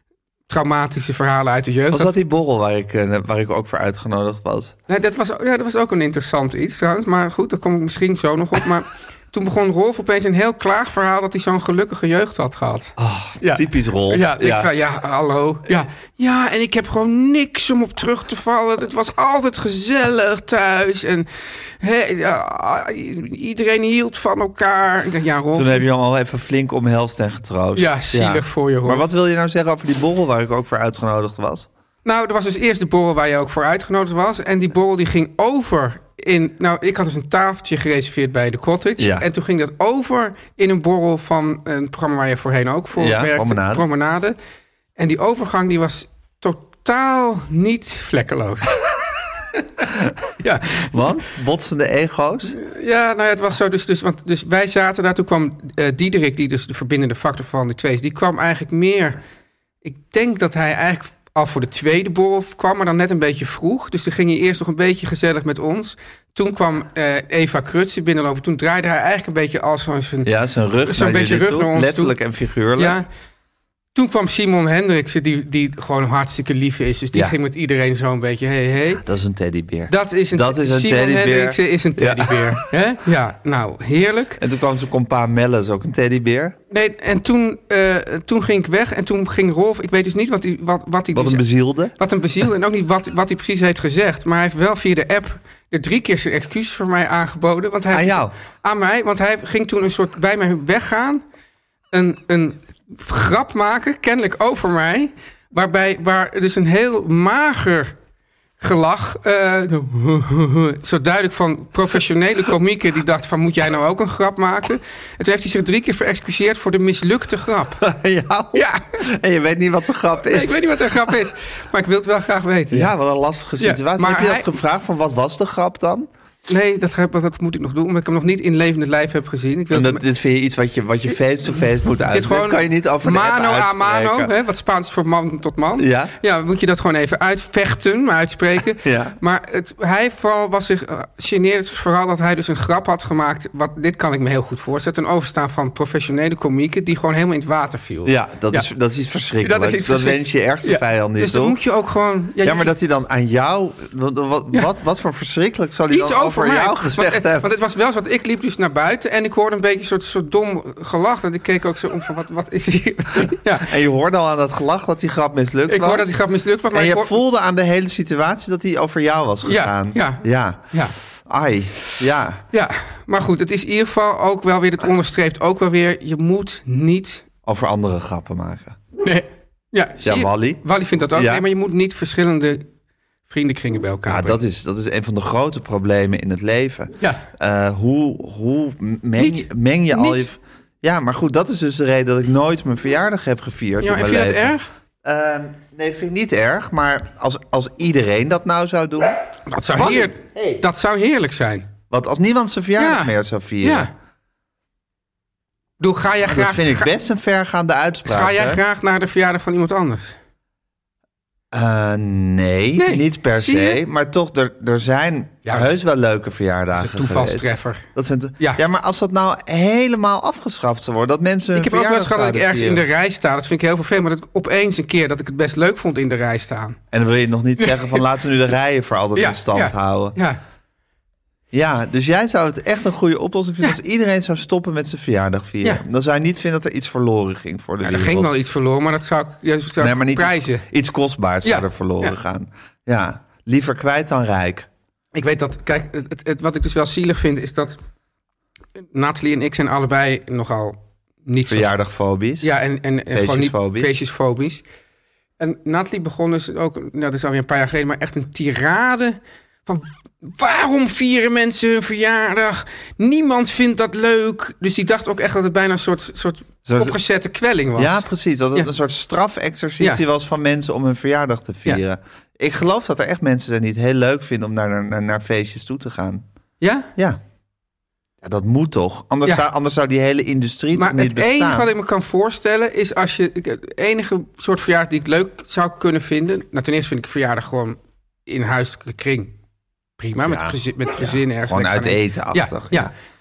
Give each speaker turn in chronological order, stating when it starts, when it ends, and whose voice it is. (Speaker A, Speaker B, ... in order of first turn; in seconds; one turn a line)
Speaker A: 0.5-2.1
Speaker B: 1.9-4.8
Speaker A: 4.9-25.8
Speaker B: 13.0-14.7
Speaker B: 25.5-31.7
Speaker A: 27.7-29.0
Speaker A: 32.0-44.4
Speaker B: 39.0-39.3
Speaker B: 43.0-43.8
Speaker A: 45.0-48.9
Speaker A: 50.4-51.2
Speaker B: 50.9-52.6
Speaker A: 52.5-59.2
Speaker A: 59.8-70.3
Speaker B: 70.2-73.0
Speaker A: 70.8-72.1
Speaker A: 72.8-73.1
Speaker A: 73.9-79.0
Speaker B: 79.0-82.6
Speaker A: 79.9-84.4
Speaker B: 84.4-86.5
Speaker A: 86.7-91.4
Speaker B: 91.1-91.9
Speaker A: 92.0-101.2
Speaker B: 97.9-98.3
Speaker A: 101.9-107.9
Speaker A: 108.6-117.8
Speaker B: 117.8-120.6
Speaker A: 118.5-118.9
Speaker A: 120.2-122.9
Speaker B: 122.7-126.1
Speaker A: 123.6-124.5
Speaker A: 126.5-130.0
Speaker B: 129.7-134.3
Speaker A: 132.1-148.7
Speaker B: 135.8-136.1
Speaker B: 138.8-139.1
Speaker B: 148.0-151.6
Speaker A: 149.4-152.7
Speaker B: 152.4-157.5
Speaker A: 155.9-163.8
Speaker B: 163.6-166.1
Speaker A: 165.7-167.2
Speaker B: 166.7-170.7
Speaker A: 169.4-170.9
Speaker B: 171.2-172.4
Speaker A: 172.5-177.2
Speaker B: 177.4-178.8
Speaker A: 179.0-182.7
Speaker B: 180.0-180.6
Speaker B: 181.1-181.4
Speaker A: 183.3-184.4
Speaker B: 184.1-199.2
Speaker A: 187.0-187.2
Speaker A: 189.2-190.2
Speaker A: 193.8-194.7
Speaker A: 199.5-201.7
Speaker B: 199.7-200.6
Speaker B: 201.9-203.9
Speaker A: 202.8-203.9
Speaker A: 205.8-206.9
Speaker B: 206.2-208.6
Speaker A: 208.1-210.2
Speaker B: 211.5-222.9
Speaker A: 212.8-213.8
Speaker A: 215.4-215.7
Speaker A: 216.7-217.9
Speaker A: 221.5-226.8
Speaker B: 226.9-230.2
Speaker A: 227.6-228.0
Speaker A: 229.1-230.4
Speaker B: 231.5-238.3
Speaker A: 237.8-240.6
Speaker B: 239.8-244.7
Speaker A: 241.4-242.2
Speaker A: 245.1-247.8
Speaker A: 248.8-251.7
Speaker B: 251.5-252.5
Speaker A: 252.4-254.6
Speaker B: 253.1-254.0
Speaker A: 255.4-268.7
Speaker B: 266.6-267.0
Speaker B: 267.8-276.2
Speaker A: 276.6-276.9
Speaker B: 278.2-281.7
Speaker A: 280.7-289.3
Speaker A: 290.0-292.9
Speaker B: 290.2-292.9